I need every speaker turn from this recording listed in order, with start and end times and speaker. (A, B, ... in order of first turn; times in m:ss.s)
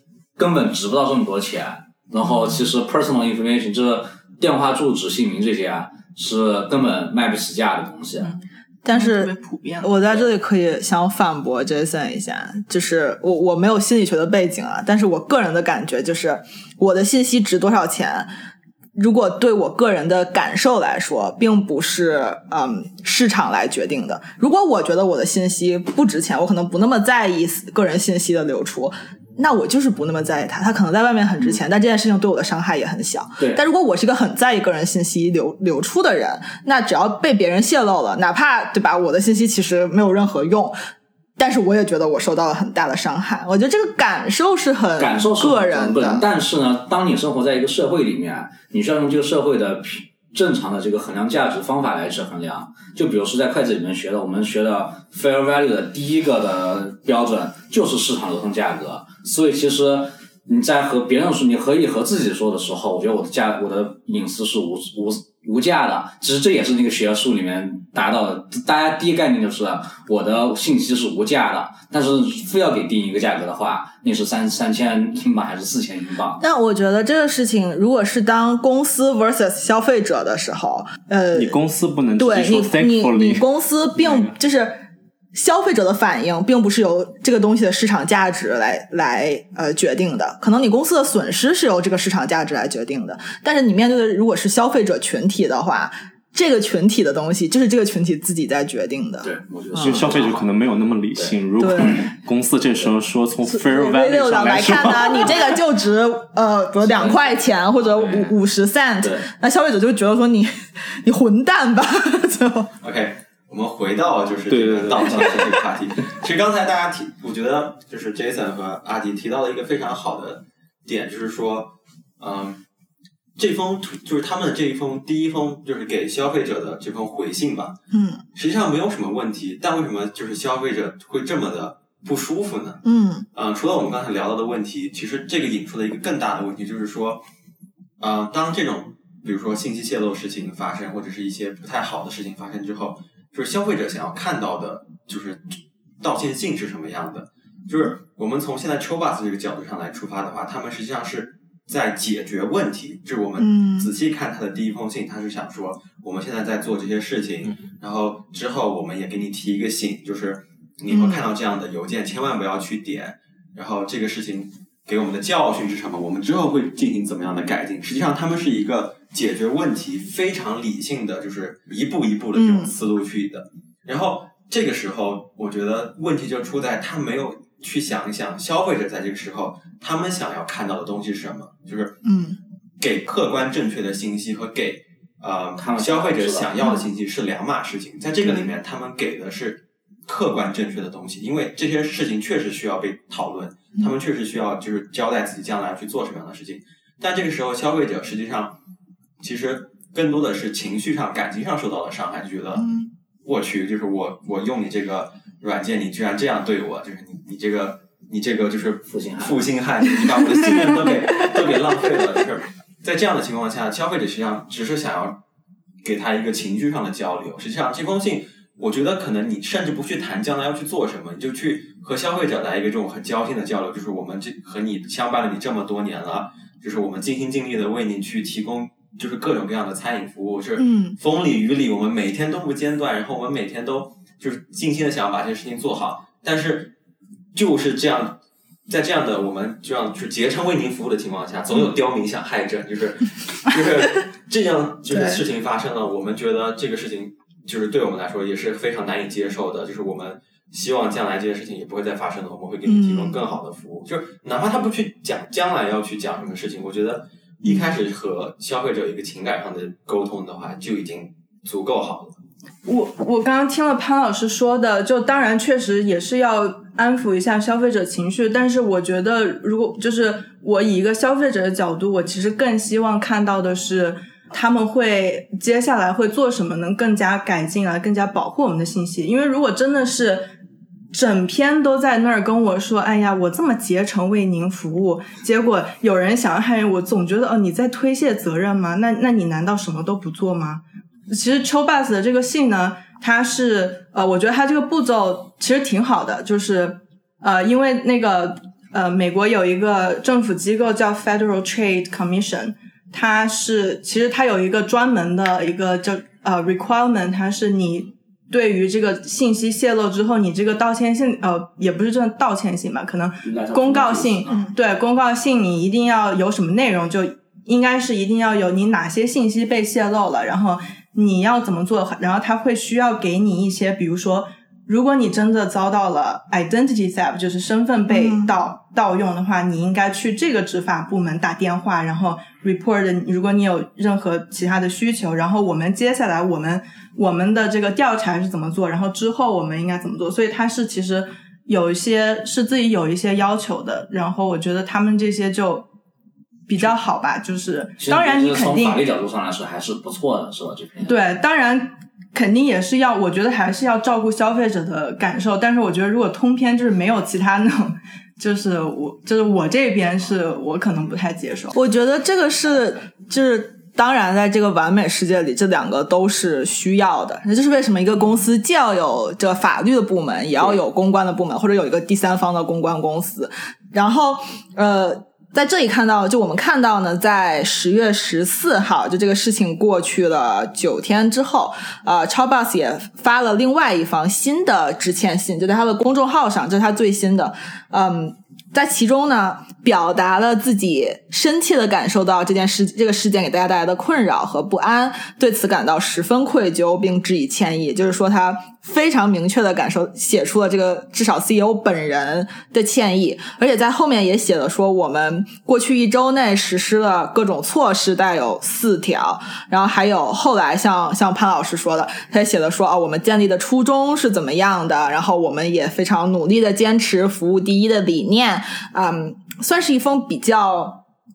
0:00.4-0:08.4 A
0:08.8-0:18.3 B
0:08.9-0:10.0 C
0:19.0-0:40.7 B
0:41.4-0:46.2 B
0:45.0-1:16.4 A
1:16.4-1:21.6 B
1:21.3-1:23.4 D
1:22.2-1:24.8 B
1:24.0-1:24.3 D
1:25.3-1:40.0 B
1:39.2-1:40.6 A
1:39.8-1:45.6 D
1:41.1-1:42.1 A
1:41.6-1:42.0 B
1:43.5-1:52.7 B
1:46.8-1:47.3 A
1:48.0-1:48.3 D
1:49.0-1:49.3 A
1:52.8-2:02.6 E
1:54.5-1:55.4 D
2:03.4-2:07.8 E
2:07.9-2:08.2 B
2:08.3-2:12.8 E
2:12.8-2:13.2 B
2:13.3-2:17.2 E
2:18.0-3:02.0 E
2:33.4-2:33.9 B
2:40.9-2:41.2 B
2:52.3-2:52.7 B
3:02.0-3:02.4 B
3:02.8-3:18.6 E
3:05.6-3:06.5 A
3:06.6-3:06.8 B
3:08.2-3:08.5 B
3:19.2-3:22.7 E
3:22.6-3:22.9 B
3:23.2-3:35.2 E
3:28.9-3:29.4 A
3:30.4-3:30.8 B
3:35.8-3:56.7 E
3:50.6-3:51.0 B
3:57.3-4:22.2 E
4:04.9-4:05.2 B
4:12.6-4:13.2 B
4:17.4-4:17.8 B
4:22.6-4:40.3 C
4:40.9-5:45.7 C
5:13.2-5:14.4 A
5:14.3-5:14.5 B
5:27.9-5:28.3 B
5:46.5-5:48.8 C
5:47.8-5:50.9 A
5:50.8-6:01.6 C
6:01.5-7:00.8 B